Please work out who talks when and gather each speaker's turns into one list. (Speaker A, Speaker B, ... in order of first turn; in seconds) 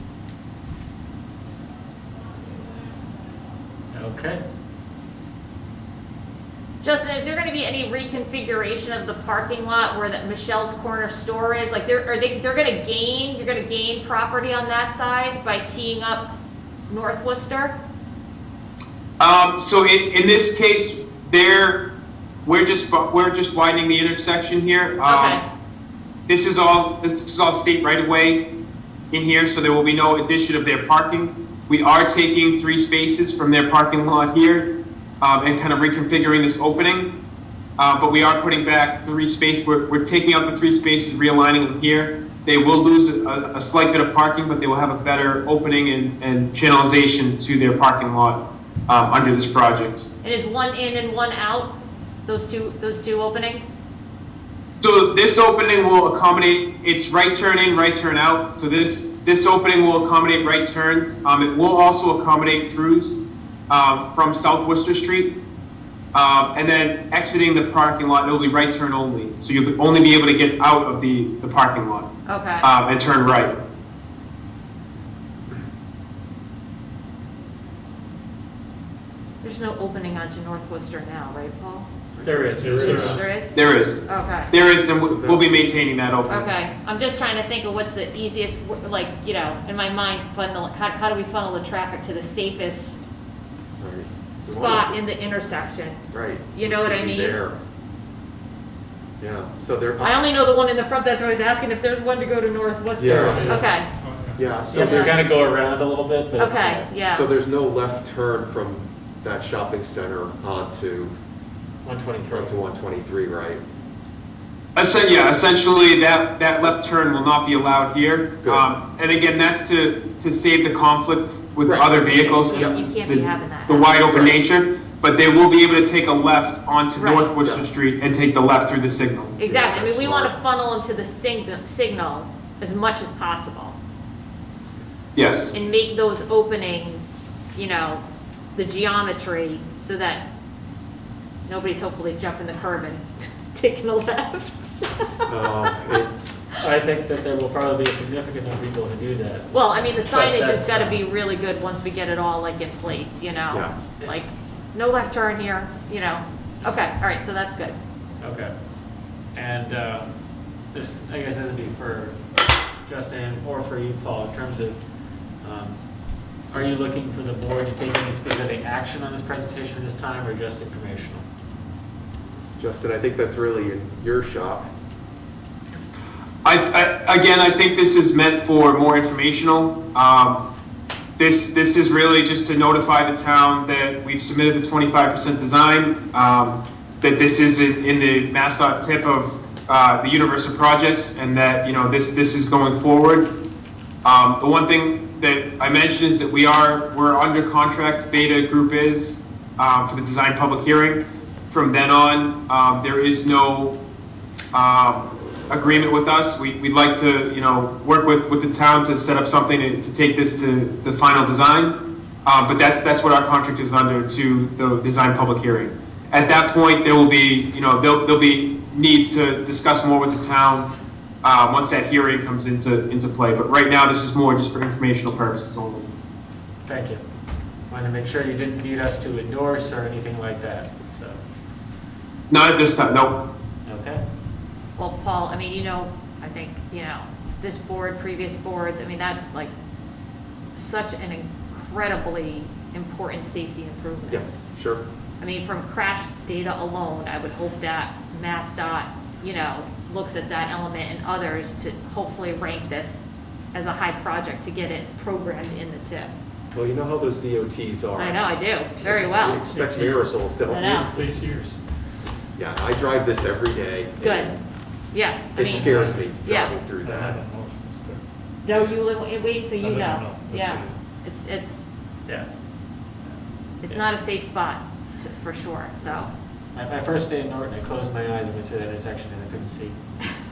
Speaker A: 3.9-4.4, 82.2-83.1, 103.2-103.5, 104.6-106.9, 111.8-112.6, 146.6-151.0, 158.2-158.5, 159.3-160.1, 160.7-162.2, 162.8-164.8, 165.4-165.8, 166.5-171.2, 226.6-227.0, 227.7-231.2, 233.6-234.0, 276.5-279.8
Speaker B: 6.8-16.3, 16.9-17.8, 25.0-25.4, 50.2-53.7, 72.3-72.7, 79.4-81.9, 82.9-84.5, 86.3-93.0, 94.4-96.0, 96.5-97.4, 100.0-103.9, 104.7-105.3, 106.3-107.3, 121.9-124.1, 126.9-127.3, 129.4-133.8, 135.5-138.0, 138.5-140.3, 141.5-145.3, 149.5-157.8, 234.8-239.5, 240.6-244.2, 245.2-256.1, 257.9-259.4, 260.4-261.0, 264.0-264.3, 264.9-265.7, 266.2-266.5, 268.4-271.6, 273.6-276.1
Speaker C: 19.2-21.8, 22.4-25.4, 26.3-28.4, 29.1-34.7, 35.2-37.1, 37.8-50.0, 54.8-63.2, 63.7-65.3, 66.1-72.1, 72.6-73.6, 83.5-86.5, 114.8-129.3, 135.1-135.5, 176.4-180.4, 181.2-193.3, 194.0-203.8, 204.5-220.7, 221.2-225.9, 232.3-233.2
Speaker D: 82.1-83.2, 85.0-85.5, 93.8-95.0, 96.1-97.6, 99.2-100.2, 103.0-103.7, 104.3-105.2, 107.0-111.1, 112.3-113.6, 121.6-122.8, 129.4-130.3, 145.3-146.1, 153.5-153.8, 172.6-174.7, 244.1-244.8, 256.5-258.2, 258.8-260.9, 262.4-264.4, 265.3-267.2
Speaker E: 82.6-83.2, 103.1-104.5, 259.4-261.6, 265.6-266.0, 266.8-268.8, 269.6-270.7